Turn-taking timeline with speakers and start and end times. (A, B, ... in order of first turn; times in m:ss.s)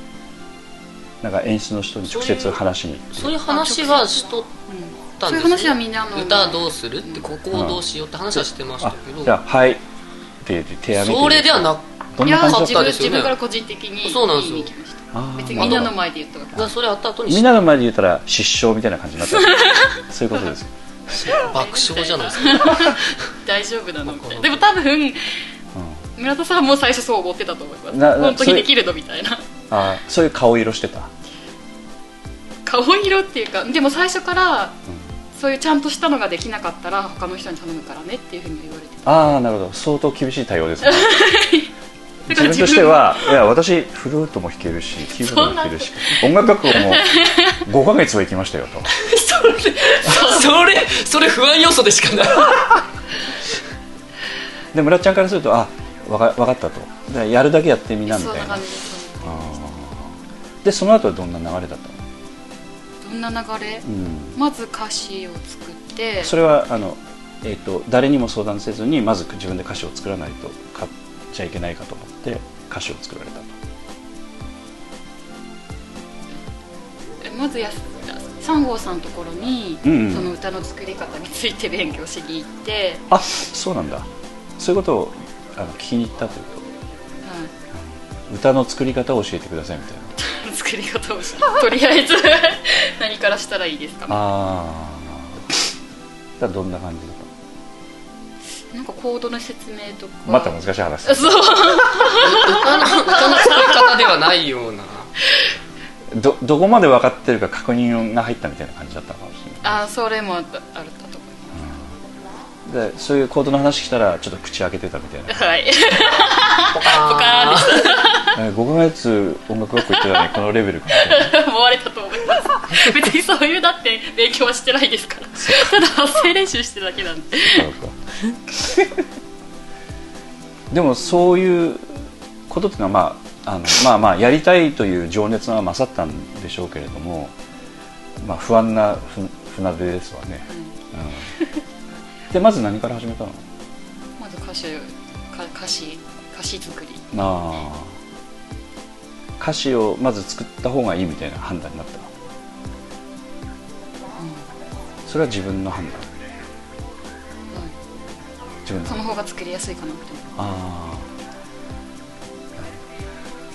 0:01.2-0:03.4 A
0:02.1-0:02.6 B
0:03.2-0:04.5 B
0:03.5-0:04.1 C
0:04.7-0:07.3 C
0:05.2-0:09.4 B
0:07.5-0:07.8 A
0:08.8-0:09.8 A
0:10.4-0:12.9 A
0:11.0-0:13.4 B
0:12.2-0:16.7 C
0:14.0-0:14.7 B
0:15.1-0:15.9 A
0:15.6-0:15.9 B
0:16.6-0:17.7 B
0:17.3-0:21.4 A
0:19.3-0:20.0 C
0:21.2-0:23.0 B
0:21.3-0:25.3 C
0:24.1-0:24.6 B
0:25.8-0:26.0 A
0:26.2-0:29.4 C
0:27.9-0:28.7 A
0:29.7-0:31.1 A
0:32.7-0:34.8 C
0:35.3-0:39.3 C
0:39.1-0:41.3 A
0:40.8-0:41.7 C
0:42.3-0:43.4 C
0:42.3-0:48.9 A
0:45.2-0:47.6 C
0:49.0-0:52.7 B
0:49.3-0:50.5 C
0:54.7-0:58.6 A
0:58.1-0:59.4 C
0:59.2-1:02.0 A
1:03.0-1:06.3 C
1:03.9-1:04.4 A
1:06.2-1:13.6 A
1:17.2-1:23.1 C
1:19.8-1:20.3 A
1:23.1-1:24.1 A
1:24.6-1:26.7 A
1:27.2-1:27.5 C
1:28.3-1:30.1 A
1:30.2-1:34.2 C
1:34.1-1:35.4 A
1:36.4-1:37.3 A
1:38.7-1:43.8 C
1:40.3-1:42.1 A
1:42.2-1:45.1 B
1:46.1-1:49.8 A
1:49.6-1:51.6 C
1:52.7-1:55.4 A
1:55.3-1:58.4 C
1:56.7-1:58.0 B
1:58.4-2:01.3 A
1:59.9-2:00.3 C
2:01.0-2:07.7 C
2:05.4-2:05.8 A
2:07.5-2:08.0 A
2:08.6-2:08.9 A
2:10.7-2:17.3 A
2:18.2-2:21.3 A
2:22.3-2:23.4 A
2:24.2-2:27.1 C
2:27.1-2:27.9 A
2:29.4-2:32.1 A
2:34.2-2:34.4 C
2:35.1-2:36.1 A
2:38.7-2:39.0 A
2:38.9-2:40.4 C
2:40.4-2:41.1 A